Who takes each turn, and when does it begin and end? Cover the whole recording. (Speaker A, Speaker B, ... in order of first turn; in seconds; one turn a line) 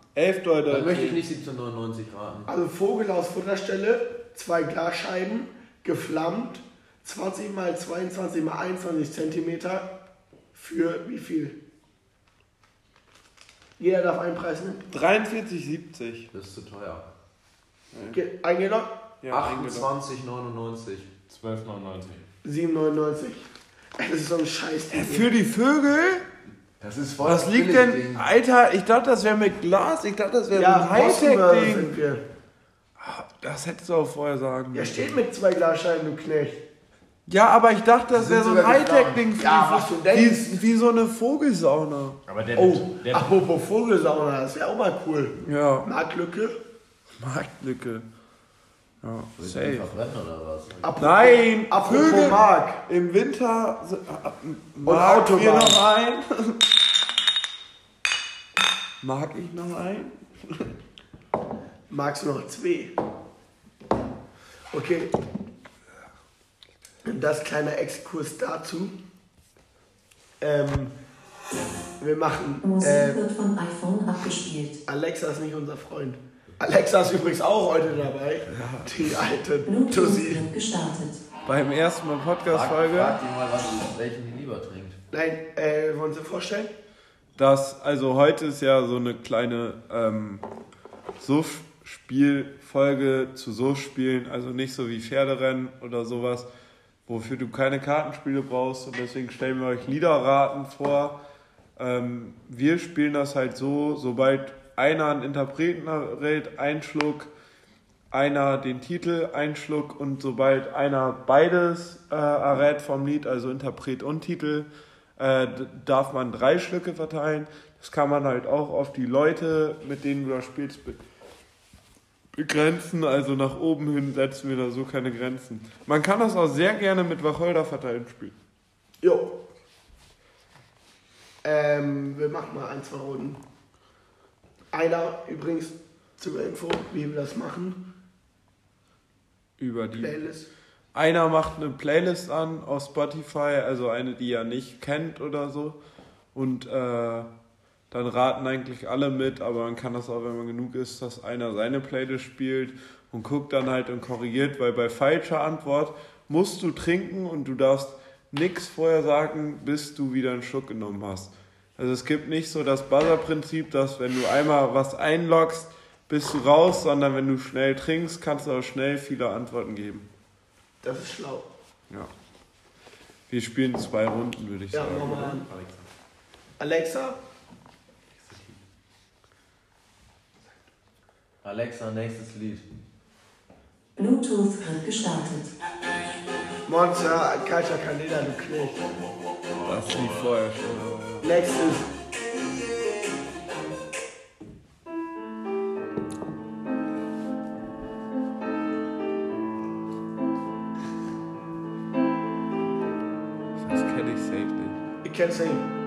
Speaker A: 0.1-1.2
Speaker B: 0.7-2.5
Speaker C: 2.5-9.9
Speaker C: 10.5-11.6
Speaker C: 13.8-14.8
Speaker A: 14.9-16.3
Speaker B: 16.3-17.1
Speaker A: 17.9-18.2
Speaker C: 18.1-18.9
Speaker A: 19.2-19.9
Speaker B: 19.3-21.1
Speaker D: 21.3-22.2
Speaker C: 22.4-23.5
Speaker C: 24.0-25.3
Speaker A: 24.9-26.2
Speaker B: 26.8-28.3
Speaker A: 27.2-31.9
Speaker C: 30.5-32.2
Speaker A: 33.0-35.2
Speaker C: 34.7-36.6
Speaker A: 37.3-42.2
Speaker B: 38.1-39.2
Speaker C: 39.4-40.6
Speaker D: 42.3-43.3
Speaker C: 42.6-46.6
Speaker A: 45.5-45.9
Speaker A: 47.2-48.0
Speaker A: 49.0-49.9
Speaker B: 49.4-50.9
Speaker C: 50.8-52.8
Speaker A: 51.0-56.6
Speaker C: 54.9-55.8
Speaker A: 59.0-60.6
Speaker C: 61.9-62.9
Speaker C: 64.7-65.1
Speaker C: 67.0-69.0
Speaker C: 70.4-71.0
Speaker C: 72.0-73.2
Speaker E: 72.6-74.8
Speaker C: 74.9-80.5
Speaker A: 78.5-78.9
Speaker E: 79.7-81.2
Speaker A: 81.5-83.2
Speaker B: 82.5-85.0
Speaker C: 85.1-86.7
Speaker A: 87.4-90.4
Speaker A: 91.2-96.5
Speaker A: 97.1-101.2
Speaker A: 101.8-107.3
Speaker A: 108.1-121.0
Speaker A: 122.3-128.3
Speaker C: 129.0-129.3
Speaker C: 131.4-133.4
Speaker C: 134.7-137.8
Speaker A: 139.6-140.2
Speaker C: 140.0-140.5
Speaker A: 140.9-145.8
Speaker A: 146.3-147.3
Speaker A: 147.9-170.1
Speaker C: 170.8-171.5
Speaker A: 173.3-175.6
Speaker C: 174.7-175.4
Speaker C: 176.6-177.2
Speaker B: 181.4-182.7
Speaker E: 184.0-185.5
Speaker C: 186.7-188.8
Speaker A: 189.6-191.3
Speaker C: 191.2-191.8
Speaker A: 203.6-204.8
Speaker C: 205.0-205.7